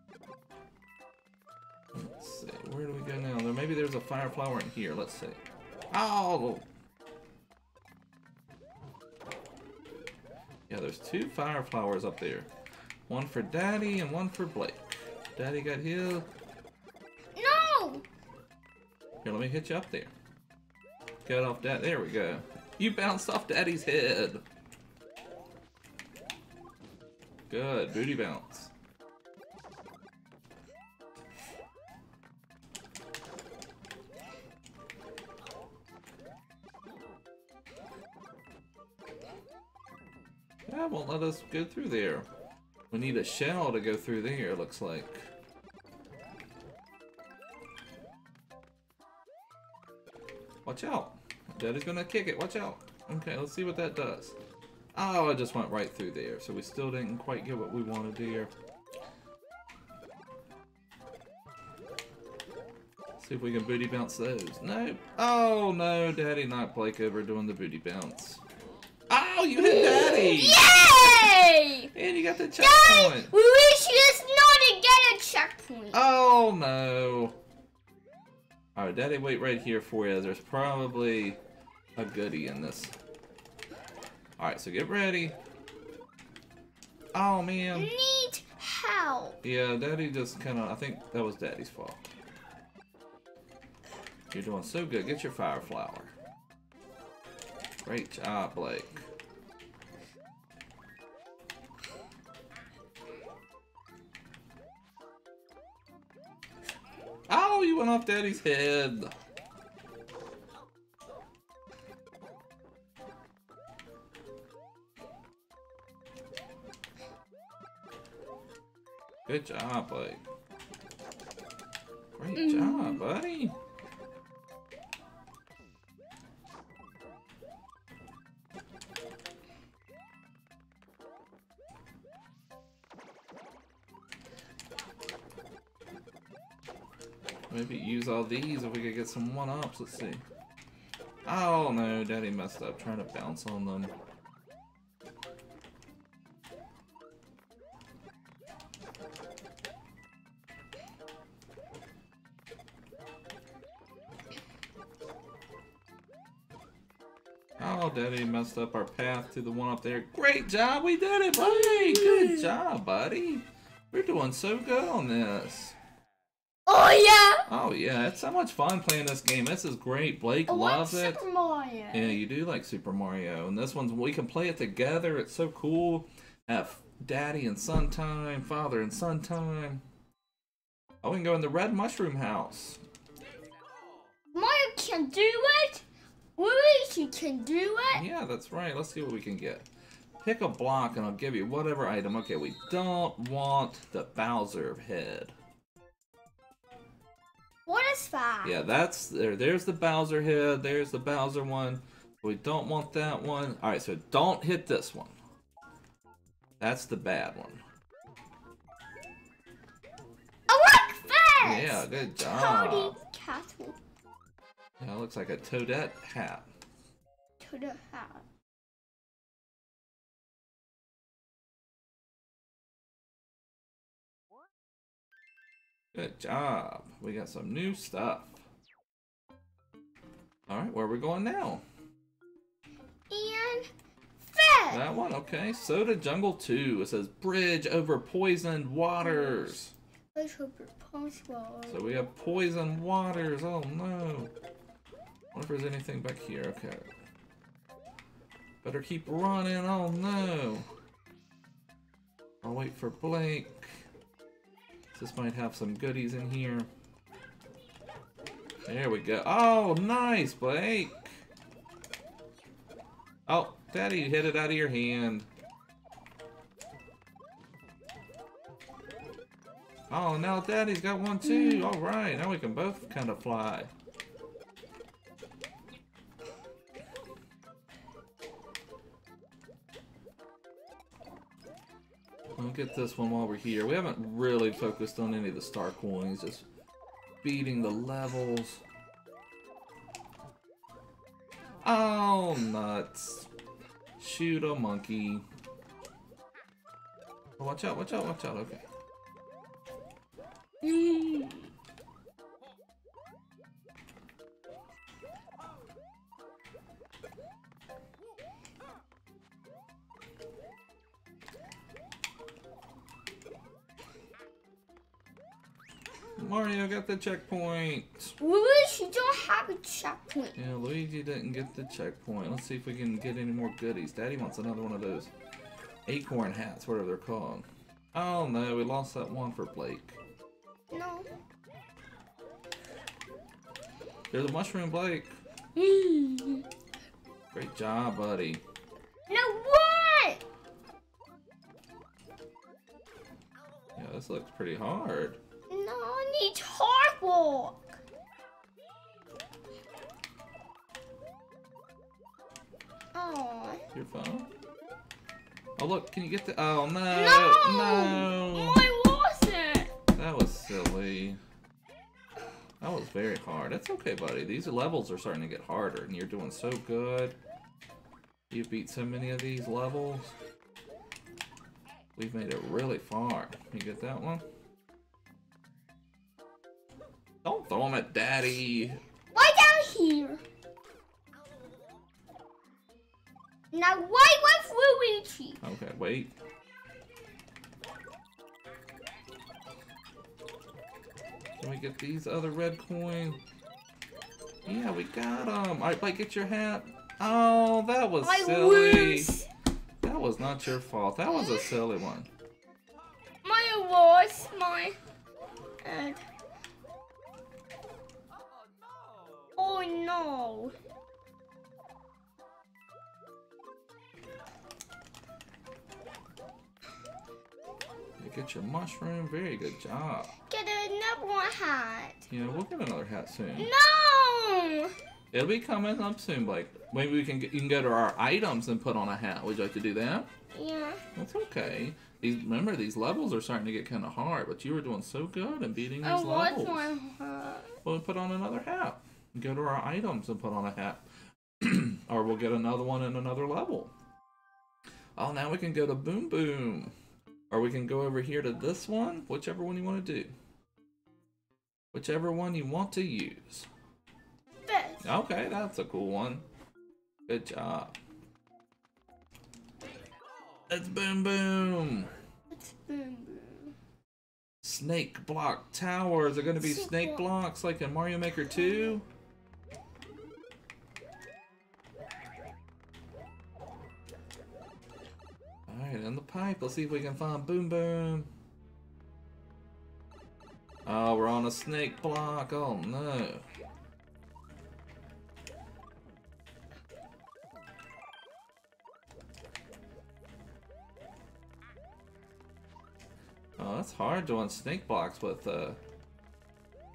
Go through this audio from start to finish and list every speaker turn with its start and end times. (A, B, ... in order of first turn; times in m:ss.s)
0:01.9-0:06.7 A
0:10.7-0:12.5 A
0:13.1-0:16.3 A
0:17.4-0:18.0 B
0:19.2-0:20.1 A
0:21.2-0:24.4 A
0:27.5-0:28.7 A
0:40.7-0:42.3 A
0:42.9-0:45.3 A
0:50.6-0:54.4 A
0:55.0-0:58.5 A
1:03.2-1:08.4 A
1:09.1-1:11.3 A
1:09.6-1:11.9 B
1:11.9-1:13.3 A
1:12.6-1:16.0 B
1:15.9-1:17.4 A
1:18.8-1:21.4 A
1:22.0-1:23.0 A
1:24.4-1:25.4 A
1:27.1-1:27.9 A
1:27.7-1:29.4 B
1:29.4-1:32.0 A
1:34.3-1:36.1 A
1:37.8-1:39.0 A
1:47.3-1:49.1 A
1:59.3-2:00.2 A
2:02.2-2:03.6 A
2:02.3-2:03.0 B
2:17.5-2:20.2 A
2:21.2-2:23.9 A
2:37.6-2:45.8 A
2:41.4-2:42.5 B
2:46.7-2:47.5 B
2:47.5-2:51.2 A
2:50.5-2:52.2 B
2:51.9-2:59.8 A
3:01.0-3:02.8 A
3:04.3-3:05.9 B
3:06.4-3:08.0 B
3:07.9-3:09.7 A
3:10.2-3:15.3 A
3:17.7-3:18.6 B
3:18.4-3:25.2 A
3:26.6-3:27.6 A
3:30.5-3:33.8 B
3:31.4-3:33.0 A
3:34.8-3:36.5 A
3:37.4-3:38.2 B
3:45.9-3:48.4 A
3:50.5-3:51.6 A
3:53.1-3:53.7 B
3:54.3-3:54.8 B
3:54.7-3:59.7 A
3:59.0-3:59.6 B
4:00.1-4:01.9 B
4:01.7-4:04.3 A
4:05.3-4:06.9 A
4:08.6-4:10.7 A
4:12.4-4:13.8 A
4:14.9-4:16.7 A
4:18.7-4:21.2 A
4:23.3-4:25.3 A
4:29.9-4:33.7 A
4:31.2-4:31.8 B
4:42.4-4:46.5 A
4:47.2-4:48.6 A
4:51.6-4:53.3 A
4:54.0-4:55.2 A
4:57.4-4:58.6 A
5:00.6-5:01.5 B
5:16.2-5:18.2 A
5:18.2-5:20.4 B
5:20.4-5:25.1 A
5:25.9-5:30.0 A
5:30.7-5:31.1 B
5:34.1-5:35.1 A
5:35.6-5:36.5 B
5:37.3-5:38.4 A
5:39.1-5:40.2 B
5:43.8-5:45.2 A
5:45.5-5:47.6 B
5:52.9-5:53.6 B
5:53.7-5:54.3 A
5:55.6-5:58.6 A
5:56.9-5:59.7 B
5:59.9-6:01.2 A
6:02.6-6:07.2 A
6:08.3-6:10.1 A
6:12.0-6:14.2 A
6:17.2-6:18.8 A
6:19.1-6:20.2 B
6:23.5-6:25.4 B
6:25.4-6:26.1 A
6:31.4-6:33.2 A
6:34.5-6:39.1 A
6:38.0-6:39.3 B
6:39.8-6:42.1 A
6:41.1-6:41.6 B
6:43.2-6:44.8 B
6:45.6-6:46.0 B
6:49.4-6:50.5 B
6:58.0-7:00.1 A
7:00.2-7:02.1 B
7:02.1-7:03.5 A
7:03.4-7:04.7 B
7:05.1-7:10.1 A
7:10.3-7:10.8 B
7:11.0-7:16.7 A
7:15.8-7:17.6 B
7:17.6-7:20.8 A
7:21.4-7:23.7 A
7:25.0-7:26.7 A
7:27.3-7:30.1 A
7:31.7-7:33.5 A
7:34.5-7:35.0 B
7:34.8-7:36.2 A
7:37.1-7:37.8 A
7:40.5-7:41.9 A
7:42.3-7:43.6 B
7:44.4-7:48.9 A
7:46.4-7:47.1 B
7:48.5-7:48.8 B
7:55.5-7:58.1 A
8:00.6-8:03.3 A
8:13.4-8:15.6 A